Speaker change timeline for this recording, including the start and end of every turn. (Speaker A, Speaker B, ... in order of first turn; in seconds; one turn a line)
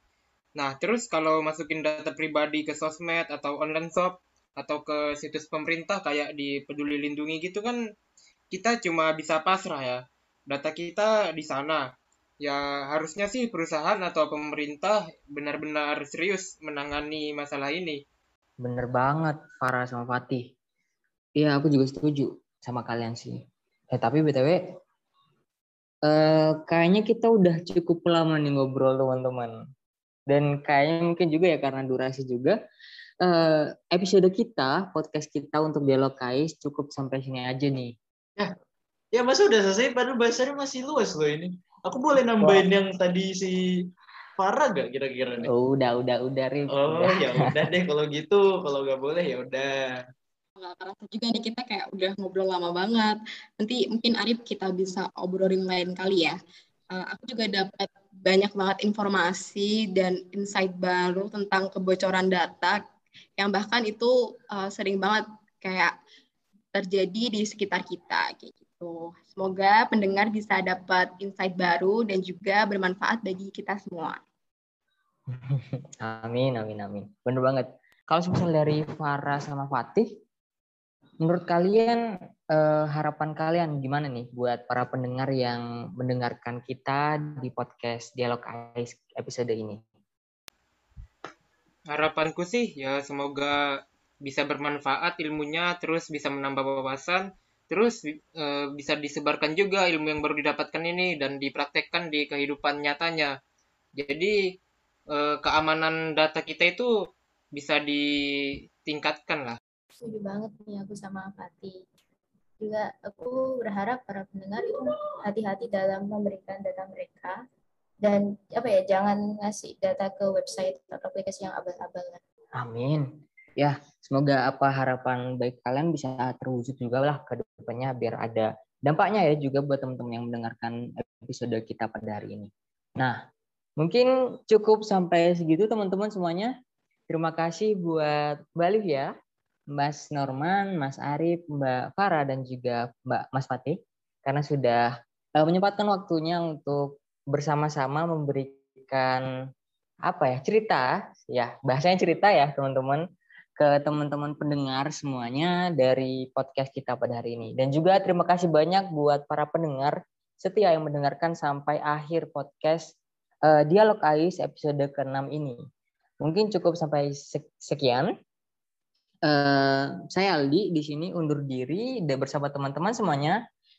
Speaker A: 0.5-7.8
Speaker A: 8.5-11.8
Speaker A: 12.4-18.0
Speaker B: 18.6-20.5
Speaker B: 21.4-23.4
Speaker B: 23.9-24.6
Speaker B: 26.1-29.6
Speaker B: 30.3-32.6
Speaker B: 33.2-37.9
Speaker C: 39.1-43.5
Speaker B: 42.4-42.7
Speaker C: 44.4-45.5
Speaker B: 45.5-47.6
Speaker C: 46.7-49.8
Speaker D: 50.6-56.4
Speaker D: 56.9-62.8
Speaker D: 63.4-65.9
Speaker D: 66.7-74.2
Speaker B: 75.3-80.2
Speaker B: 81.2-82.0
Speaker B: 82.5-89.8
Speaker A: 91.9-103.3
Speaker A: 104.0-104.5
Speaker A: 105.1-106.9
Speaker A: 107.5-108.0
Speaker A: 108.8-109.6
Speaker E: 110.0-111.8
Speaker E: 112.6-117.4
Speaker E: 118.0-122.2
Speaker B: 122.6-133.2
Speaker B: 133.8-136.5
Speaker B: 137.1-139.1
Speaker B: 139.8-144.8
Speaker B: 145.4-149.2
Speaker B: 150.1-153.0
Speaker B: 153.6-162.9
Speaker B: 163.5-165.6
Speaker B: 166.2-168.1
Speaker B: 169.3-173.4